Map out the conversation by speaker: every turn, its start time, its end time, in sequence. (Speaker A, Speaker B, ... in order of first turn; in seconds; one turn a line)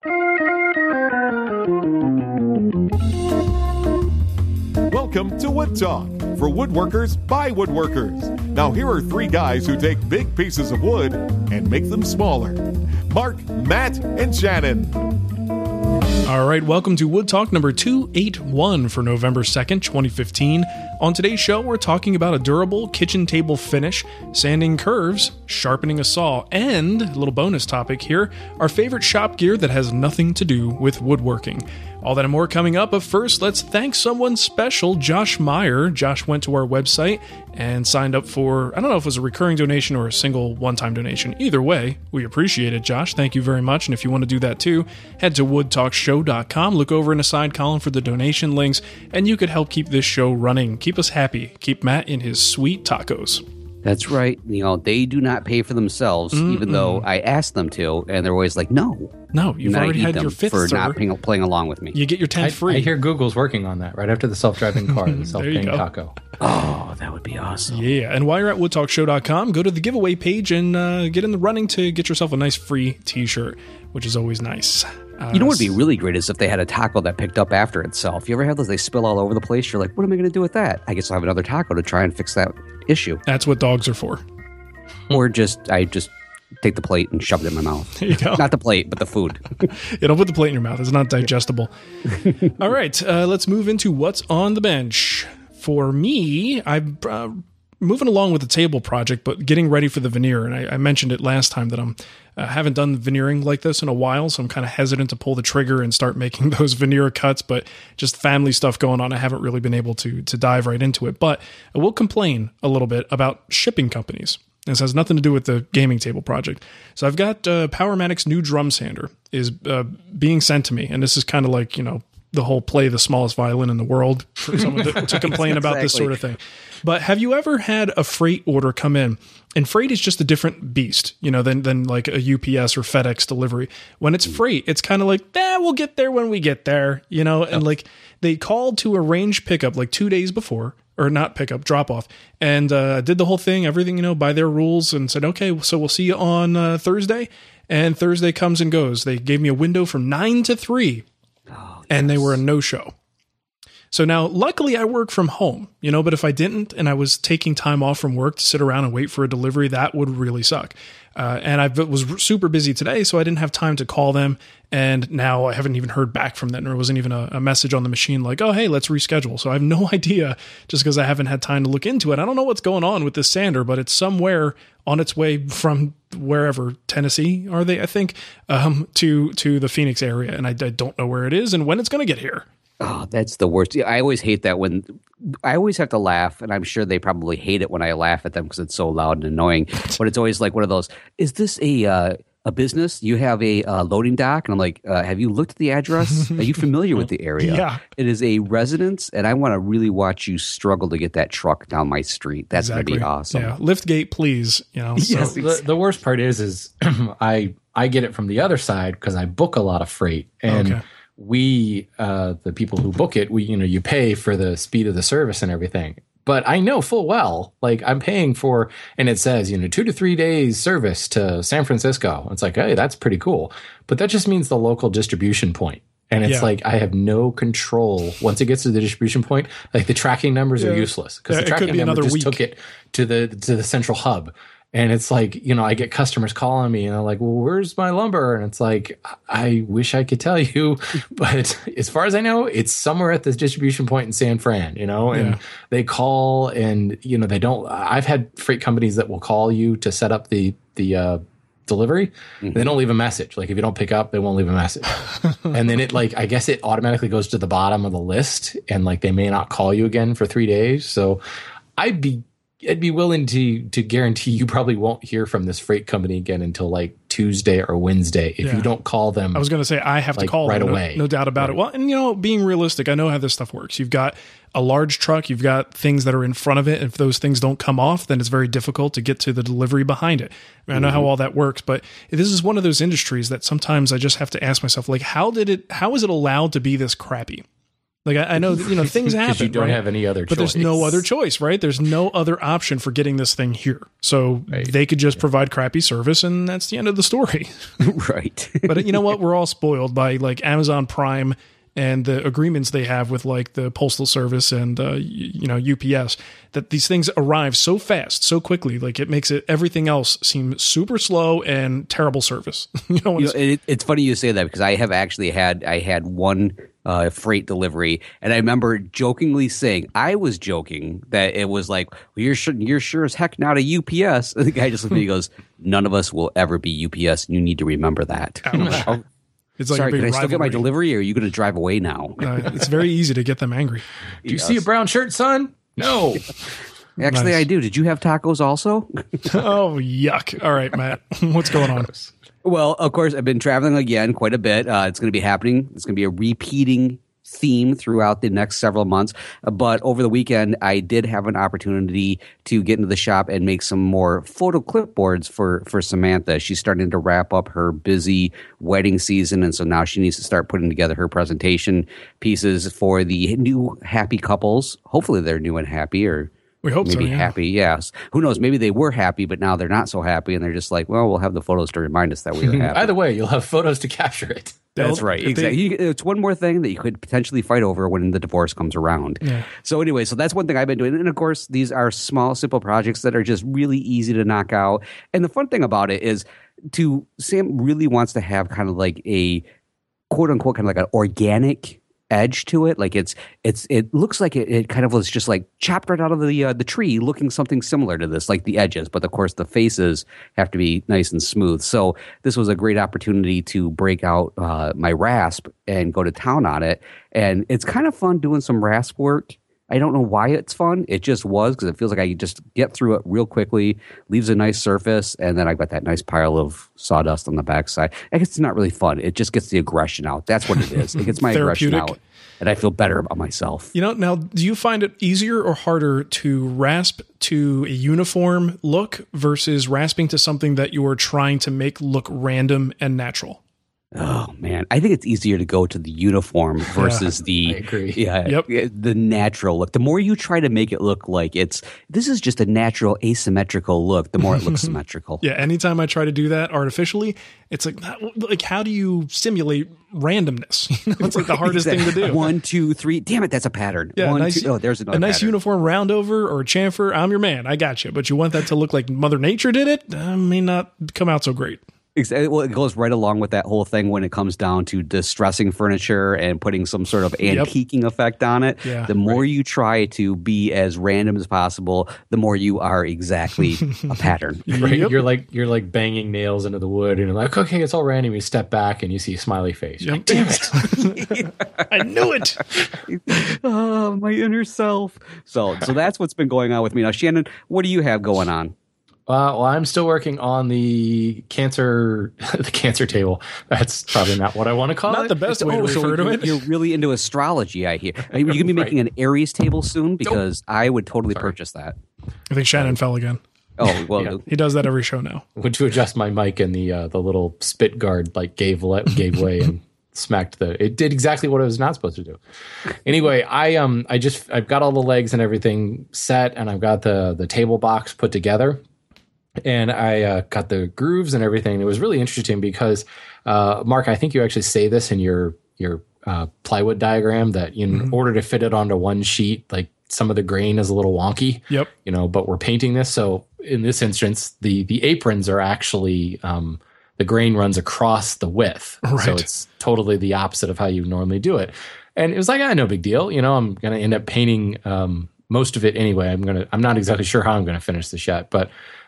Speaker A: 4.9-15.0
Speaker B: 16.3-53.4
Speaker C: 53.8-62.0
Speaker B: 56.3-57.1
Speaker B: 59.3-61.0
Speaker B: 61.9-62.9
Speaker D: 62.4-66.2
Speaker B: 65.1-65.8
Speaker C: 66.4-67.8
Speaker B: 67.7-75.7
Speaker C: 75.3-83.2
Speaker B: 83.3-84.2
Speaker C: 85.1-89.7
Speaker B: 88.0-88.4
Speaker B: 89.9-91.7
Speaker B: 92.5-151.1
Speaker C: 124.9-126.1
Speaker C: 151.5-152.4
Speaker B: 151.9-152.9
Speaker B: 153.9-182.4
Speaker C: 182.8-203.5
Speaker B: 196.0-196.5
Speaker B: 197.4-197.8
Speaker B: 202.6-205.4
Speaker C: 205.0-205.5
Speaker D: 205.2-261.2
Speaker B: 210.5-210.8
Speaker B: 226.2-226.5
Speaker B: 230.6-232.4
Speaker B: 245.1-245.4
Speaker D: 261.8-269.5
Speaker B: 268.4-268.7
Speaker B: 269.3-287.4
Speaker D: 270.1-271.6
Speaker B: 288.1-297.5
Speaker D: 289.0-291.0
Speaker C: 297.8-299.2
Speaker B: 298.7-313.4
Speaker C: 313.2-329.0
Speaker B: 328.4-328.9
Speaker D: 328.6-328.9
Speaker B: 329.6-330.6
Speaker C: 329.7-332.6
Speaker B: 332.2-333.9
Speaker C: 334.2-334.6
Speaker D: 334.3-336.3
Speaker C: 337.0-339.5
Speaker B: 337.1-337.4
Speaker B: 339.3-341.9
Speaker C: 342.4-366.3
Speaker B: 366.6-367.3
Speaker C: 366.8-372.9
Speaker D: 372.4-374.6
Speaker B: 374.8-375.6
Speaker C: 374.8-389.4
Speaker B: 379.2-379.5
Speaker C: 390.1-423.7
Speaker B: 421.0-422.0
Speaker B: 423.7-433.4
Speaker C: 433.9-445.2
Speaker B: 436.7-437.1
Speaker D: 437.4-438.0
Speaker B: 445.2-452.3
Speaker C: 451.0-455.4
Speaker B: 454.0-461.6
Speaker C: 462.0-474.5
Speaker B: 467.2-467.5
Speaker B: 468.6-469.2
Speaker B: 474.5-475.0
Speaker D: 474.5-480.7
Speaker B: 479.8-482.6
Speaker C: 480.9-481.6
Speaker C: 482.9-488.5
Speaker D: 489.1-495.8
Speaker B: 494.9-496.4
Speaker C: 495.3-501.8
Speaker D: 498.3-498.7
Speaker B: 502.3-503.2
Speaker C: 503.6-504.2
Speaker B: 504.3-505.2
Speaker D: 505.4-512.2
Speaker D: 512.8-518.6
Speaker D: 519.4-548.5
Speaker B: 538.8-539.3